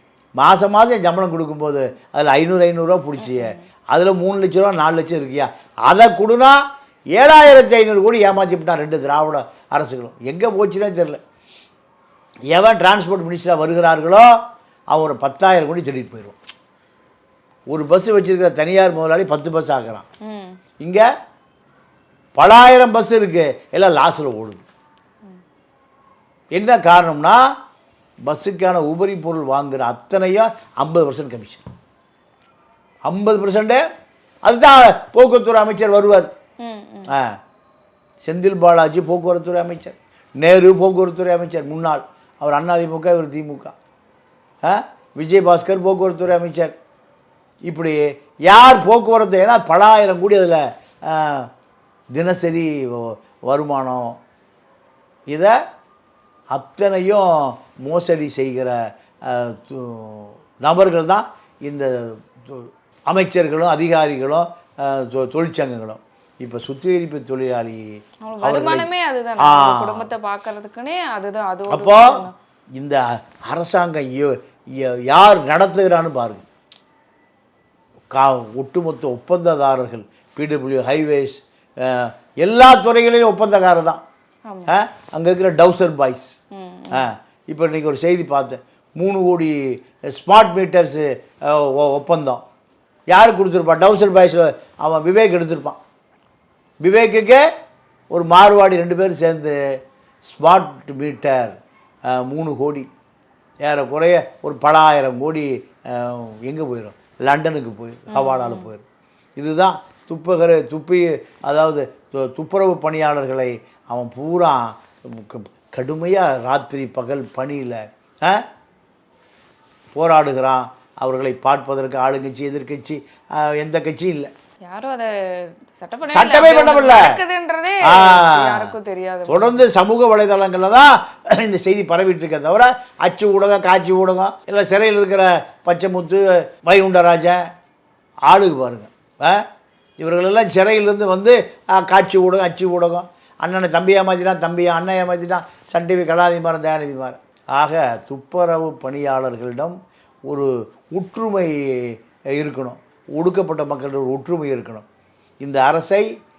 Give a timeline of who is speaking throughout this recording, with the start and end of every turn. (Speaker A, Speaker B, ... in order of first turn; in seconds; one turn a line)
Speaker A: 0.4-6.6
Speaker B: 3.2-3.7
Speaker A: 7.2-11.2
Speaker A: 12.5-14.3
Speaker A: 14.9-16.4
Speaker A: 17.7-20.1
Speaker B: 20.3-20.6
Speaker A: 20.8-21.1
Speaker A: 22.4-24.6
Speaker A: 26.5-27.4
Speaker A: 28.2-31.6
Speaker A: 33.0-33.8
Speaker A: 34.5-36.3
Speaker B: 36.6-37.1
Speaker A: 37.1-37.3
Speaker A: 38.2-43.7
Speaker A: 44.6-46.7
Speaker A: 47.7-51.5
Speaker A: 52.1-54.2
Speaker A: 56.5-70.1
Speaker B: 68.2-72.3
Speaker A: 71.7-72.2
Speaker A: 72.8-76.4
Speaker A: 78.1-84.0
Speaker B: 84.5-84.7
Speaker A: 84.7-86.3
Speaker B: 86.5-87.1
Speaker A: 86.9-92.4
Speaker A: 93.1-95.8
Speaker A: 96.8-97.4
Speaker A: 98.1-99.6
Speaker A: 100.3-101.6
Speaker A: 102.1-102.9
Speaker A: 103.6-108.8
Speaker B: 108.1-108.7
Speaker A: 109.4-118.4
Speaker A: 120.0-124.3
Speaker B: 124.7-129.6
Speaker A: 126.1-127.2
Speaker A: 127.8-128.8
Speaker A: 129.3-137.5
Speaker A: 138.3-139.4
Speaker A: 140.0-149.8
Speaker A: 150.3-154.8
Speaker A: 155.4-156.1